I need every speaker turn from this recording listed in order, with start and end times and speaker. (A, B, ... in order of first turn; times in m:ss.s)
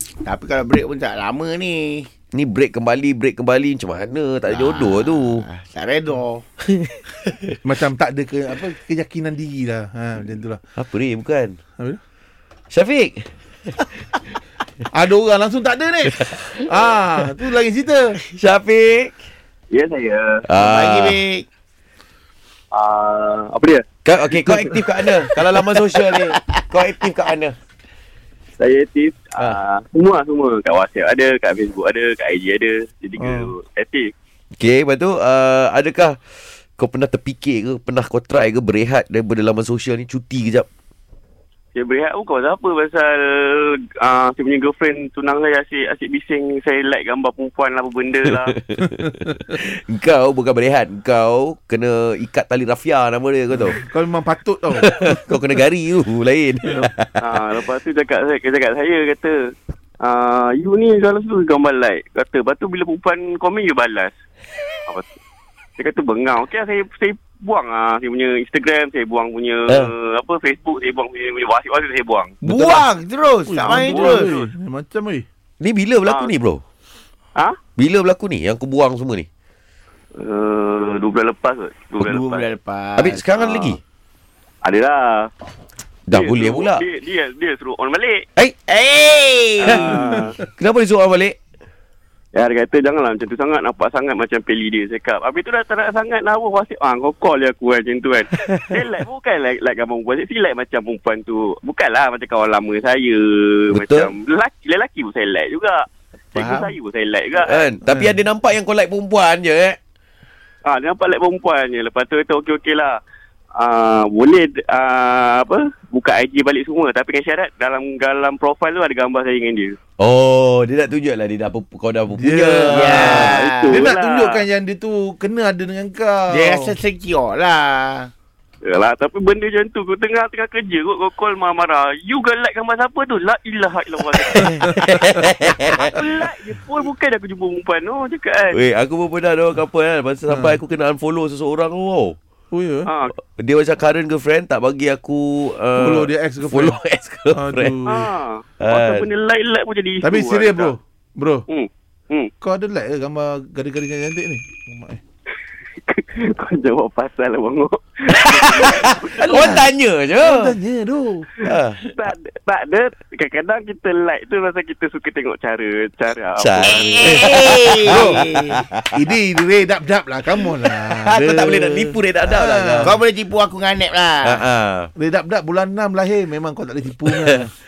0:00.2-0:02.1 A
0:02.3-0:05.4 B
0:04.5-0:06.4 A
0:06.7-0:07.5 B
0:07.6-0:10.6 C
0:10.8-0:11.6 B
0:12.7-0:14.0 B
0:14.9-0:18.2 C
0:16.1-0:16.7 B
0:18.3-0:19.2 B
0:19.7-0:20.4 D
0:20.4-0:21.2 B
0:20.6-0:21.4 A
0:22.7-0:24.8 D
0:24.0-0:27.5 B
0:25.7-0:26.6 A
0:28.6-0:34.1 D
0:33.2-0:33.5 C
0:34.6-0:36.2 B
0:36.8-0:40.7 B
0:41.7-0:48.6 D
0:48.2-0:53.8 B
0:48.8-0:49.4 C
0:53.5-0:55.4 C
0:54.8-0:57.4 B
0:57.2-1:04.1 D
1:05.8-1:12.4 D
1:12.4-1:14.3 A
1:12.5-1:12.9 C
1:13.5-1:15.2 C
1:13.9-1:14.5 D
1:15.6-1:16.6 B
1:16.0-1:16.3 D
1:17.8-1:19.3 B
1:20.2-1:22.4 D
1:22.0-1:23.3 A
1:23.0-1:23.8 B
1:23.4-1:23.8 D
1:24.6-1:25.3 D
1:26.1-1:26.8 B
1:26.1-1:28.2 D
1:28.7-1:29.9 A
1:29.6-1:30.4 D
1:29.8-1:30.4 C
1:30.1-1:31.4 B
1:32.3-1:47.7 D
1:38.4-1:38.6 B
1:43.7-1:44.1 B
1:46.4-1:46.7 A
1:47.3-1:49.8 B
1:47.9-1:48.1 C
1:50.6-1:53.0 D
1:53.5-1:59.8 D
2:00.0-2:03.3 B
2:02.1-2:06.7 C
2:02.7-2:03.9 A
2:03.0-2:04.4 D
2:06.3-2:08.1 A
2:08.6-2:14.7 D
2:14.1-2:16.0 B
2:15.8-2:18.6 D
2:18.5-2:22.2 B
2:20.3-2:20.6 C
2:22.5-2:22.9 C
2:22.8-2:23.1 D
2:23.2-2:27.8 B
2:25.7-2:26.8 C
2:27.3-2:28.1 C
2:27.8-2:30.7 D
2:28.6-2:29.1 B
2:30.0-2:31.4 C
2:31.5-2:32.3 D
2:32.4-2:35.0 C
2:35.9-2:39.6 D
2:38.1-2:40.6 B
2:39.0-2:39.7 C
2:40.2-2:41.3 C
2:41.4-2:42.1 B
2:41.5-2:47.3 D
2:46.4-2:49.0 B
2:47.0-2:48.6 A
2:47.0-2:48.2 C
2:48.9-2:52.9 C
2:50.6-2:53.0 B
2:52.8-2:54.4 A
2:54.2-2:54.9 B
2:54.9-2:57.5 C
2:57.1-2:57.5 B